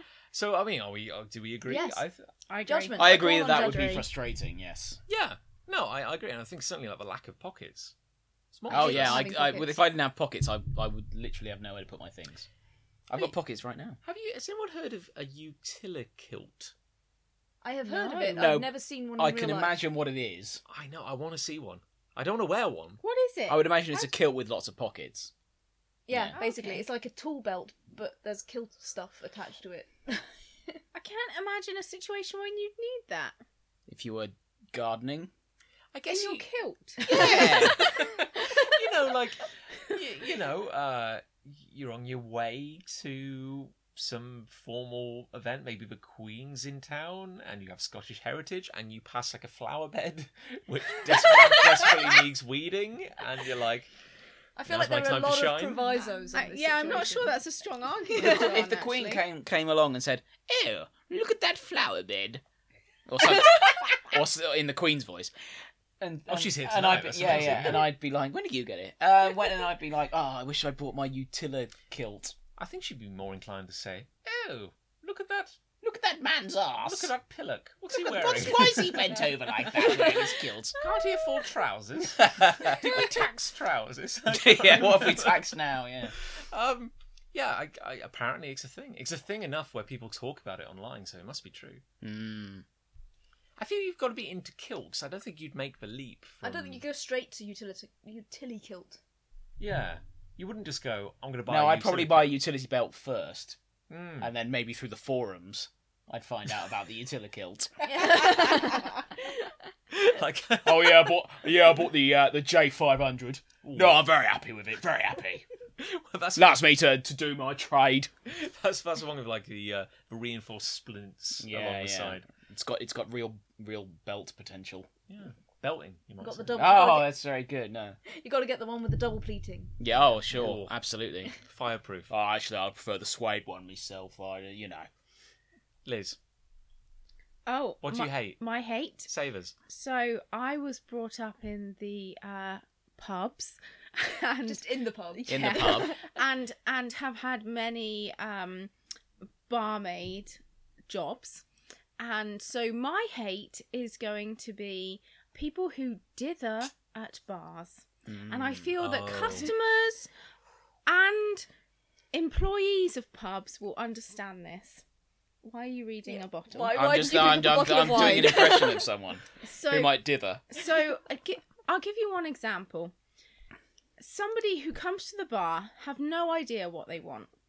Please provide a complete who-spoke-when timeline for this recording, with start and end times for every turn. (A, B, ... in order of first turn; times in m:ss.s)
0:00.3-0:02.3 A
0:01.7-0:02.0 B
0:02.5-0:04.0 C
0:02.6-0:04.1 B
0:03.0-0:05.0 D
0:05.1-0:07.9 A
0:08.5-0:09.3 A
0:08.7-0:09.9 B
0:08.7-0:12.5 D
0:13.1-0:14.0 D
0:14.0-0:16.7 A
0:17.6-0:19.8 B
0:17.9-0:18.4 C
0:18.3-0:20.6 D
0:20.7-0:23.0 A
0:23.0-0:24.1 C
0:23.5-0:25.3 D
0:26.1-0:30.8 B
0:26.1-0:26.4 D
0:26.4-0:26.9 C
0:30.9-0:33.4 C
0:33.9-0:35.3 D
0:35.9-0:36.4 A
0:36.1-0:37.8 C
0:37.0-0:37.8 D
0:37.1-0:37.7 B
0:37.1-0:53.9 A
0:54.6-0:57.4 B
0:54.7-0:55.9 A
0:56.0-0:59.2 C
0:58.2-0:58.5 B
0:58.2-1:02.4 D
1:03.1-1:05.3 D
1:06.0-1:12.4 D
1:06.3-1:07.9 A
1:12.6-1:15.6 A
1:15.8-1:17.1 D
1:16.8-1:19.2 A
1:17.9-1:20.8 D
1:19.9-1:20.2 A
1:20.8-1:25.5 A
1:22.2-1:23.1 D
1:24.3-1:26.1 D
1:26.2-1:31.8 A
1:32.0-1:32.6 D
1:33.6-1:36.8 A
1:36.4-1:39.0 B
1:39.6-1:42.3 A
1:41.5-1:43.6 D
1:43.9-1:44.3 A
1:44.2-1:48.2 D
1:47.8-1:48.9 B
1:49.9-1:51.2 A
1:50.6-1:55.5 D
1:53.6-1:54.0 A
1:55.8-1:56.6 A
1:56.4-1:58.1 D
1:58.3-2:02.3 A
2:01.4-2:04.9 D
2:05.1-2:06.6 A
2:06.2-2:07.1 B
2:06.6-2:08.0 D
2:08.0-2:09.8 B
2:09.8-2:11.3 D
2:10.3-2:10.8 A
2:11.3-2:12.1 A
2:12.1-2:14.9 D
2:15.8-2:16.2 A
2:17.5-2:19.1 C
2:17.8-2:18.4 A
2:19.1-2:19.6 A
2:19.7-2:28.7 C
2:24.4-2:26.1 B
2:25.3-2:25.9 D
2:29.5-2:31.4 C
2:32.0-2:40.1 C
2:38.1-2:38.7 D
2:38.8-2:39.5 A
2:40.9-2:41.5 C
2:42.1-2:44.8 C
2:45.4-2:47.4 C
2:46.1-2:48.9 B
2:46.7-2:50.4 D
2:49.4-2:50.0 C
2:50.5-2:52.9 C
2:54.0-2:57.3 C